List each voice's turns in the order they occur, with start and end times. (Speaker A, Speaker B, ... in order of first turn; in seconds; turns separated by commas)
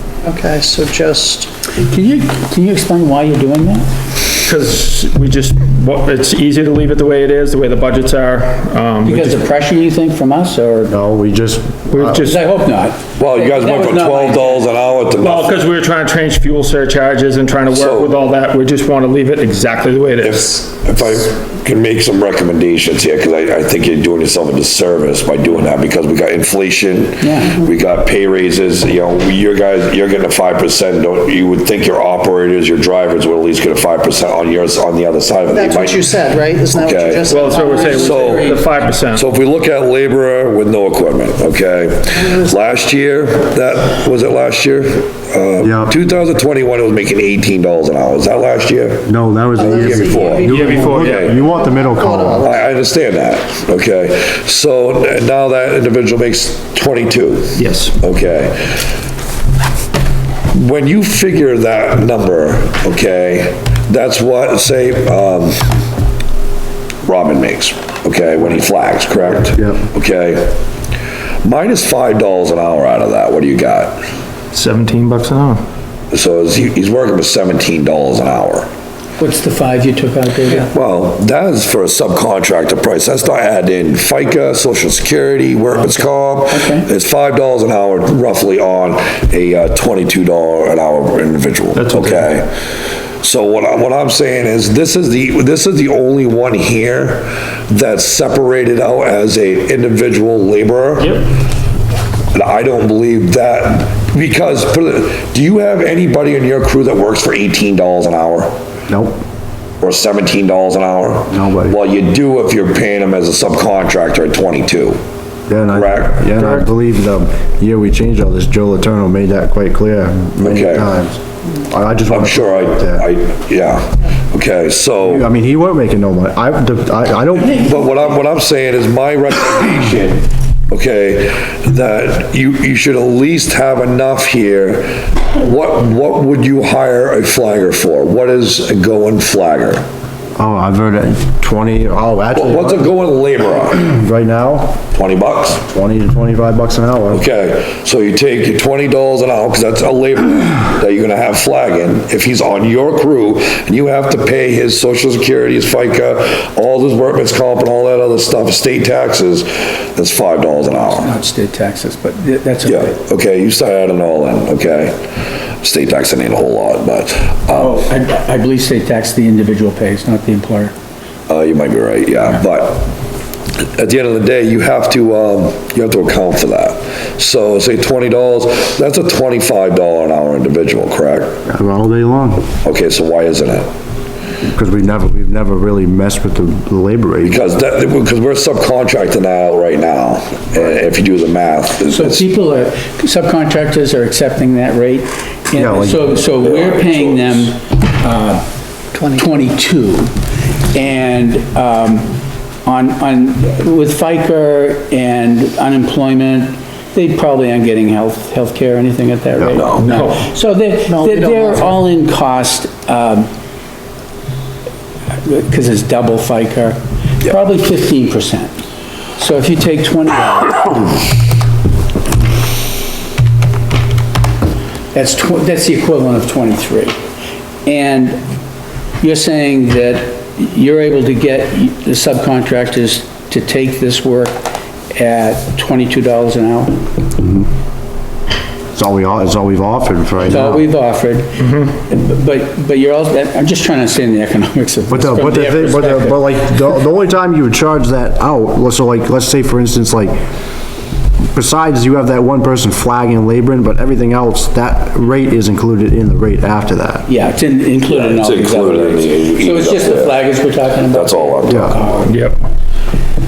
Speaker A: 0.2-1.5, Speaker B: 1.8-3.9, Speaker C: 4.4-9.4, Speaker B: 9.0-10.9, Speaker D: 10.9-12.3, Speaker C: 11.9-12.4, Speaker B: 12.2-14.7, Speaker E: 13.2-15.5, Speaker C: 15.2-20.5, Speaker E: 17.7-18.2, Speaker E: 20.2-36.1, Speaker B: 27.2-27.6, Speaker A: 35.5-38.6, Speaker E: 36.7-38.6, Speaker C: 37.2-39.2, Speaker E: 39.1-49.1, Speaker A: 42.2-42.6, Speaker D: 45.6-45.9, Speaker D: 49.0-52.5, Speaker A: 49.5-52.5, Speaker E: 49.6-51.4, Speaker C: 50.4-51.4, Speaker E: 52.4-58.8, Speaker C: 57.5-58.0, Speaker E: 60.5-65.6, Speaker E: 67.0-70.6, Speaker E: 71.4-74.0, Speaker C: 74.5-75.6, Speaker E: 76.1-78.7, Speaker B: 79.2-80.7, Speaker E: 80.6-92.5, Speaker B: 86.5-86.8, Speaker C: 91.7-92.3, Speaker E: 93.2-101.2, Speaker C: 101.0-101.3, Speaker E: 102.3-108.5, Speaker D: 108.9-109.2, Speaker E: 109.8-115.0, Speaker D: 111.3-111.8, Speaker D: 115.5-123.0, Speaker E: 115.7-116.2, Speaker C: 116.4-116.6, Speaker E: 120.4-120.9, Speaker E: 122.0-125.3, Speaker D: 125.0-127.6, Speaker E: 127.4-139.8, Speaker D: 140.4-142.9, Speaker E: 142.3-143.9, Speaker D: 143.8-144.8, Speaker E: 144.9-145.7, Speaker D: 145.7-147.2, Speaker E: 147.1-161.1, Speaker B: 160.9-163.0, Speaker E: 162.6-164.9, Speaker E: 165.6-167.8, Speaker B: 167.5-170.7, Speaker E: 171.3-172.9, Speaker E: 173.8-181.4, Speaker D: 181.4-182.5, Speaker E: 182.6-183.7, Speaker D: 184.4-187.4, Speaker E: 187.2-192.3, Speaker B: 191.8-198.4, Speaker D: 195.5-196.3, Speaker E: 196.3-197.5, Speaker A: 198.9-199.3, Speaker B: 199.1-200.1, Speaker B: 200.7-202.1, Speaker B: 202.6-213.3, Speaker E: 209.5-209.9, Speaker C: 209.8-210.2, Speaker A: 210.9-211.7, Speaker B: 215.2-218.6, Speaker B: 219.2-220.9, Speaker B: 224.9-227.0, Speaker B: 227.6-228.2, Speaker B: 229.0-236.8, Speaker D: 237.2-237.5, Speaker D: 238.7-240.6, Speaker B: 240.3-246.4, Speaker D: 244.9-250.2, Speaker D: 251.3-257.1, Speaker B: 257.1-262.1, Speaker E: 257.9-260.2, Speaker E: 260.9-262.1, Speaker D: 261.5-261.8, Speaker C: 262.1-262.4